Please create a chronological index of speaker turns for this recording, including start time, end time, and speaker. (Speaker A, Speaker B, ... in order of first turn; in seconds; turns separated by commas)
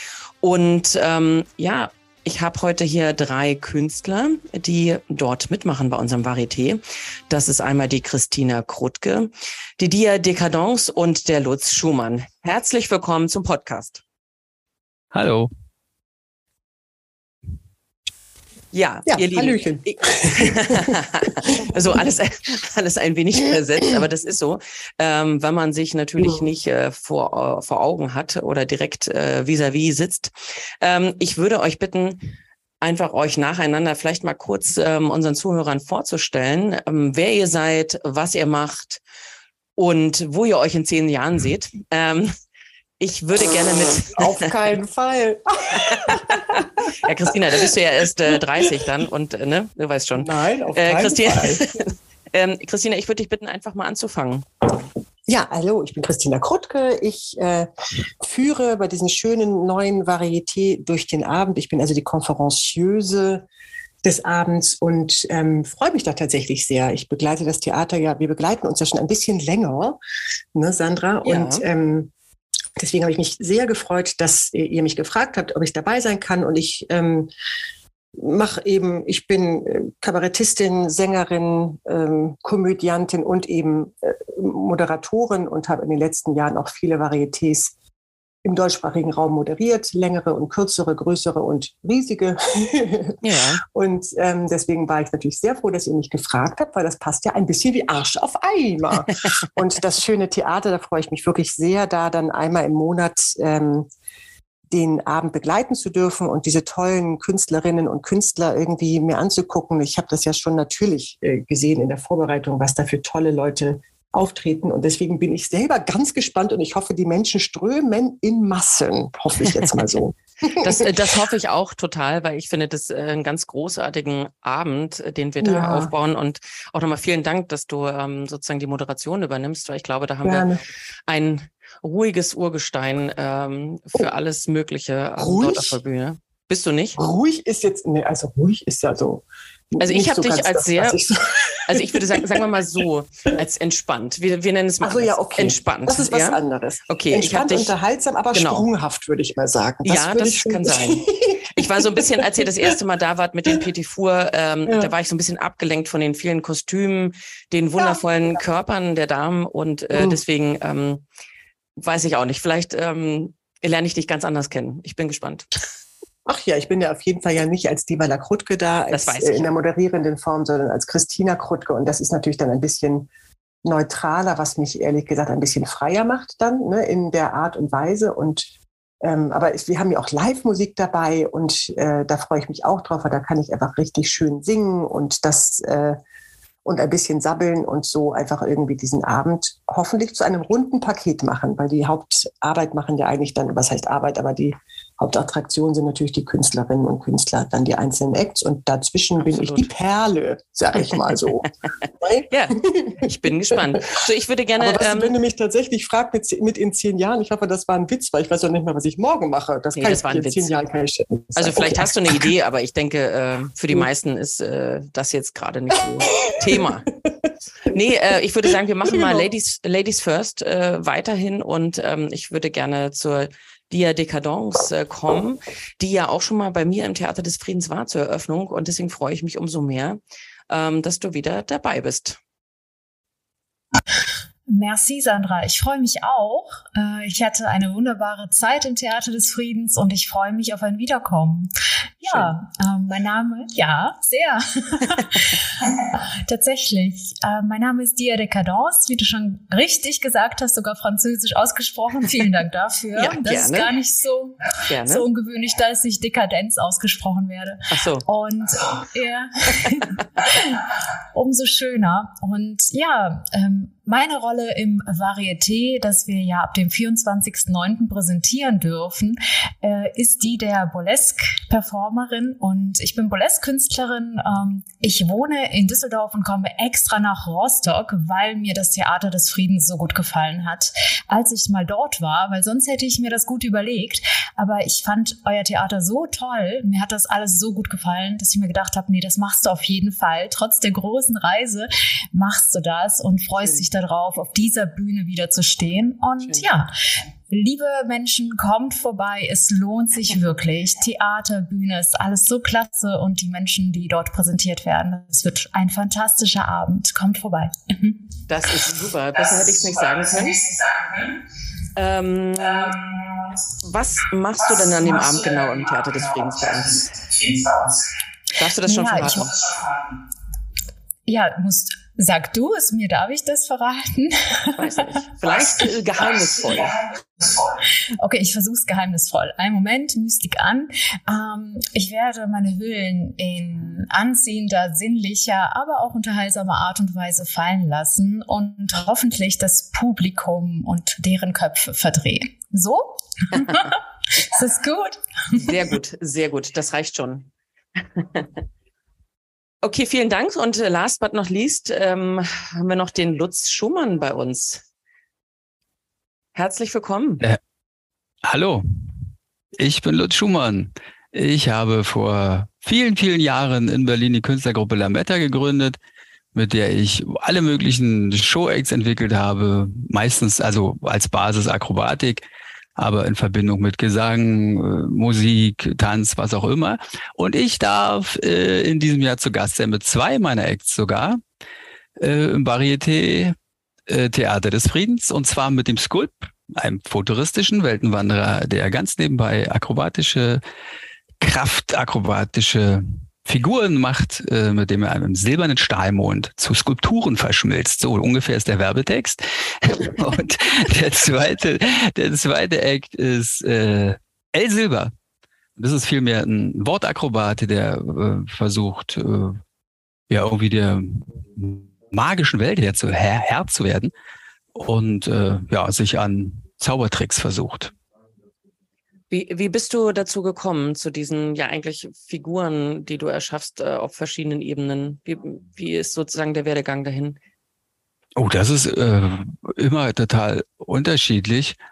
Speaker A: 0.4-14.0, Speaker B: 15.1-15.5, Speaker A: 18.7-32.2, Speaker C: 19.1-21.6, Speaker C: 26.2-26.4, Speaker A: 32.8-39.0, Speaker A: 39.8-42.3, Speaker A: 43.0-44.5, Speaker C: 44.1-46.6, Speaker A: 45.8-54.5, Speaker C: 47.3-47.7, Speaker C: 48.3-48.9, Speaker C: 50.1-51.7, Speaker C: 55.3-57.7, Speaker C: 58.2-63.5, Speaker C: 64.0-70.0, Speaker C: 70.5-72.1, Speaker A: 71.2-71.6, Speaker C: 72.8-77.3, Speaker C: 78.2-87.7, Speaker C: 88.4-103.9, Speaker A: 93.2-93.6, Speaker C: 104.7-120.9, Speaker A: 120.6-137.0, Speaker C: 125.4-125.9, Speaker C: 130.2-130.6, Speaker C: 135.2-135.8, Speaker C: 137.0-142.5, Speaker A: 139.8-141.0, Speaker A: 141.7-146.4, Speaker C: 144.8-152.7, Speaker A: 146.9-147.7, Speaker A: 148.3-148.7, Speaker A: 149.8-161.0, Speaker C: 154.7-154.9, Speaker C: 157.8-158.3, Speaker C: 159.9-160.2, Speaker A: 161.8-165.5, Speaker C: 166.2-173.1, Speaker A: 168.9-169.5, Speaker C: 173.6-178.5, Speaker C: 179.0-186.0, Speaker C: 186.6-203.8, Speaker A: 199.2-199.7, Speaker A: 202.3-205.1, Speaker C: 204.6-212.3, Speaker A: 209.8-210.5, Speaker A: 211.3-216.9, Speaker C: 216.2-216.7, Speaker A: 217.7-230.0, Speaker C: 218.9-219.3, Speaker A: 230.5-232.2, Speaker D: 234.5-241.5, Speaker D: 242.0-296.7, Speaker A: 252.9-253.7, Speaker A: 254.7-255.0, Speaker A: 257.7-258.0, Speaker D: 297.3-308.0, Speaker A: 308.3-310.7, Speaker A: 311.8-317.8, Speaker A: 318.4-319.7, Speaker D: 318.6-319.3, Speaker D: 321.1-324.8, Speaker A: 324.6-326.8, Speaker D: 328.0-345.6, Speaker A: 343.3-343.6, Speaker A: 345.3-347.3, Speaker A: 347.9-348.3, Speaker A: 349.6-354.6, Speaker A: 356.3-357.2, Speaker B: 358.2-358.9, Speaker B: 359.6-365.8, Speaker B: 366.3-372.2, Speaker B: 372.8-381.2, Speaker B: 382.0-383.4, Speaker B: 383.9-390.4, Speaker B: 391.2-404.9, Speaker B: 405.6-409.4, Speaker B: 410.1-413.9, Speaker B: 414.5-417.7, Speaker A: 419.1-427.2, Speaker B: 428.2-431.6